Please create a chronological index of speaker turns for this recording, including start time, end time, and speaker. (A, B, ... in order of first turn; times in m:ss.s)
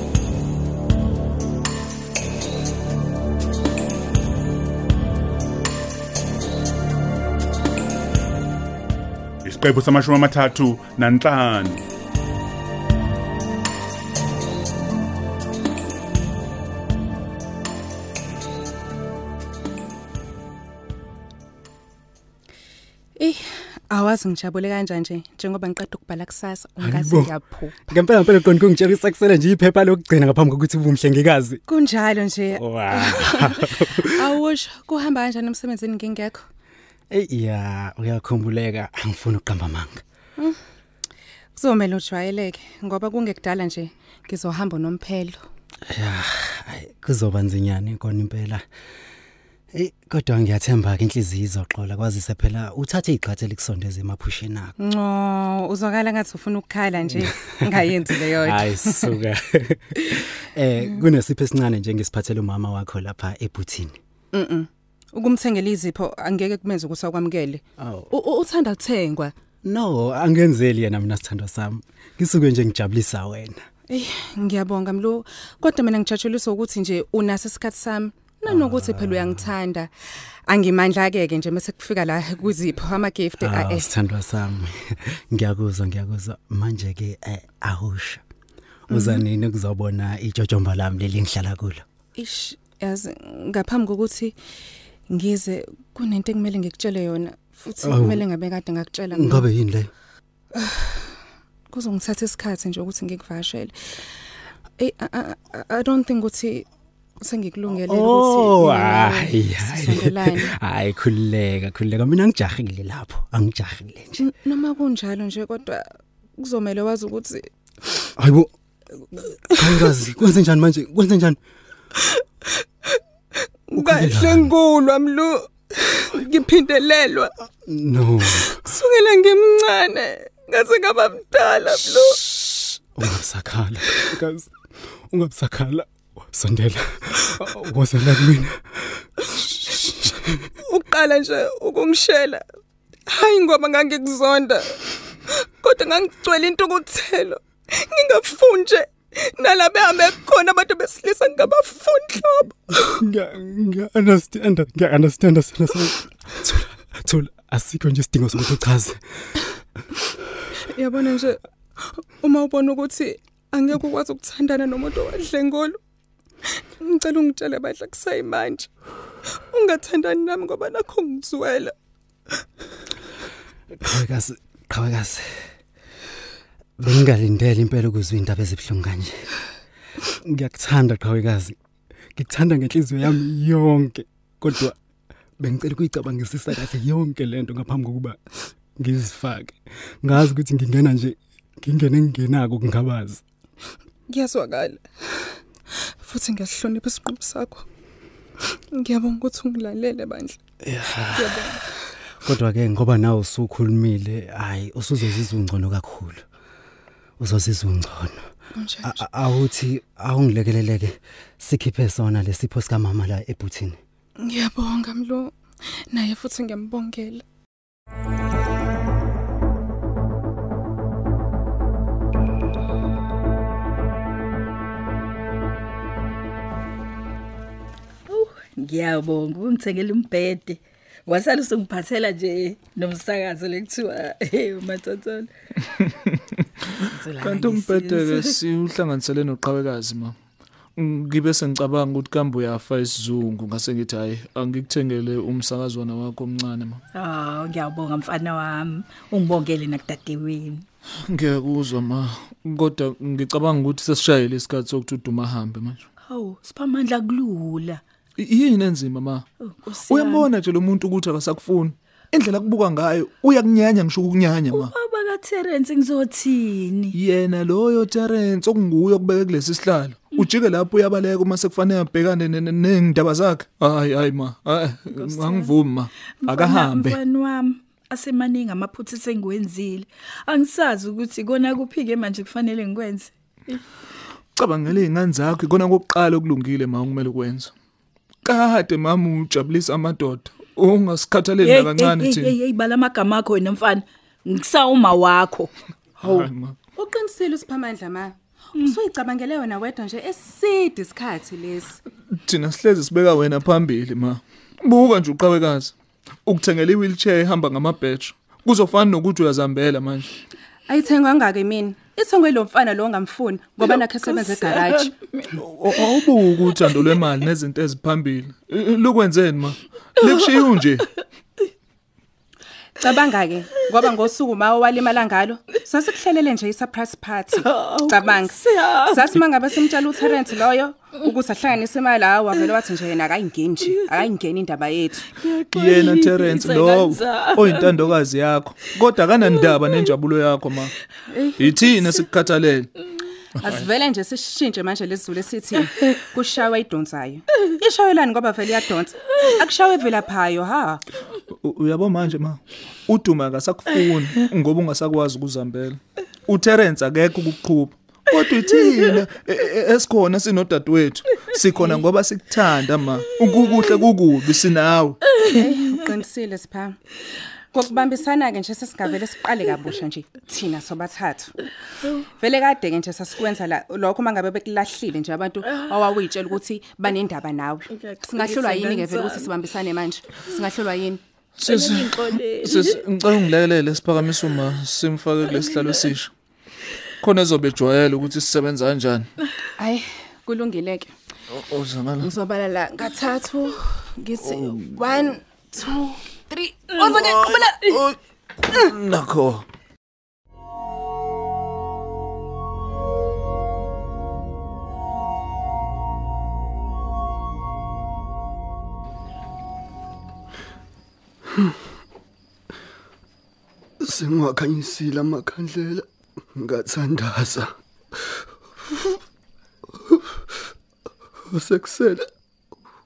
0:09.4-0:11.8 A
0:23.2-0:28.0 B
0:26.8-0:27.3 C
0:27.9-0:31.6 C
0:31.7-0:36.5 B
0:32.6-0:34.3 C
0:37.1-0:40.0 C
0:41.6-0:45.4 B
0:45.9-0:48.7 C
0:49.7-0:54.7 C
0:54.8-0:59.2 B
0:57.2-1:04.0 C
1:04.3-1:09.3 B
1:07.8-1:08.1 C
1:09.6-1:13.6 C
1:13.9-1:19.9 B
1:18.5-1:19.5 C
1:20.5-1:23.9 B
1:23.4-1:28.2 C
1:28.9-1:31.8 C
1:28.9-1:29.2 B
1:32.2-1:34.4 B
1:35.1-1:39.5 B
1:37.8-1:38.2 C
1:39.1-1:39.9 C
1:40.6-1:41.2 B
1:41.7-1:44.1 B
1:44.8-1:46.7 B
1:47.2-1:50.5 B
1:47.7-1:54.3 C
1:54.2-1:57.5 B
1:58.2-1:58.5 C
1:59.1-1:59.9 B
1:59.5-2:01.4 C
2:03.7-2:07.3 B
2:03.8-2:04.5 C
2:07.7-2:08.6 C
2:08.3-2:12.3 B
2:13.0-2:14.5 C
2:15.1-2:19.1 C
2:19.4-2:19.8 B
2:19.6-2:20.4 C
2:20.6-2:22.4 B
2:23.1-2:32.8 B
2:32.8-2:39.3 C
2:40.7-2:45.8 B
2:46.6-2:48.7 B
2:49.4-2:51.7 B
2:53.8-2:55.5 C
2:56.8-2:59.4 C
3:00.2-3:01.6 C
3:02.2-3:04.8 C
3:05.4-3:13.2 C
3:14.1-3:15.4 B
3:16.0-3:17.7 B
3:18.7-3:20.4 B
3:20.6-3:21.6 C
3:21.2-3:21.7 B
3:22.2-3:26.2 C
3:27.2-3:28.3 C
3:28.6-3:29.0 B
3:28.8-3:33.8 C
3:34.2-3:35.4 B
3:35.9-3:37.2 B
3:48.1-3:55.3 D
3:55.8-3:56.4 E
3:56.9-3:58.4 D
3:57.2-4:00.2 E
4:00.8-4:06.8 E
4:07.0-4:10.6 D
4:11.1-4:15.8 E
4:16.1-4:17.8 D
4:18.2-4:19.2 E
4:19.4-4:20.3 D
4:19.8-4:24.7 E
4:24.5-4:27.0 D
4:27.0-4:37.0 E
4:34.9-4:35.5 D
4:36.2-4:43.6 D
4:44.4-4:47.5 E
4:48.2-4:52.4 E
4:51.4-4:55.5 D
4:56.0-4:56.3 D
4:56.0-4:56.6 E
4:56.8-5:01.8 B
5:02.2-5:05.7 E
5:06.2-5:10.1 E
5:10.7-5:14.9 B
5:14.3-5:15.2 D
5:15.4-5:20.9 E
5:22.8-5:35.2 B
5:27.4-5:29.2 D
5:35.2-5:37.8 D
5:35.5-5:40.8 E
5:41.1-5:41.5 B
5:41.4-5:42.7 E
5:43.4-5:50.8 B
5:51.4-6:05.2 E
6:05.2-6:06.8 B
6:07.5-6:11.3 B
6:12.2-6:21.0 B
6:17.7-6:19.3 D
6:21.4-6:26.1 E
6:21.5-6:22.8 D
6:25.4-6:25.9 D
6:27.0-6:29.1 E
6:29.6-6:30.9 B
6:31.3-6:32.1 E
6:32.0-6:37.6 B
6:34.3-6:34.6 E
6:36.7-6:37.1 D
6:36.8-6:38.0 E
6:38.5-6:39.4 E
6:53.8-6:58.1 F
6:59.8-7:00.3 F
7:01.3-7:02.1 F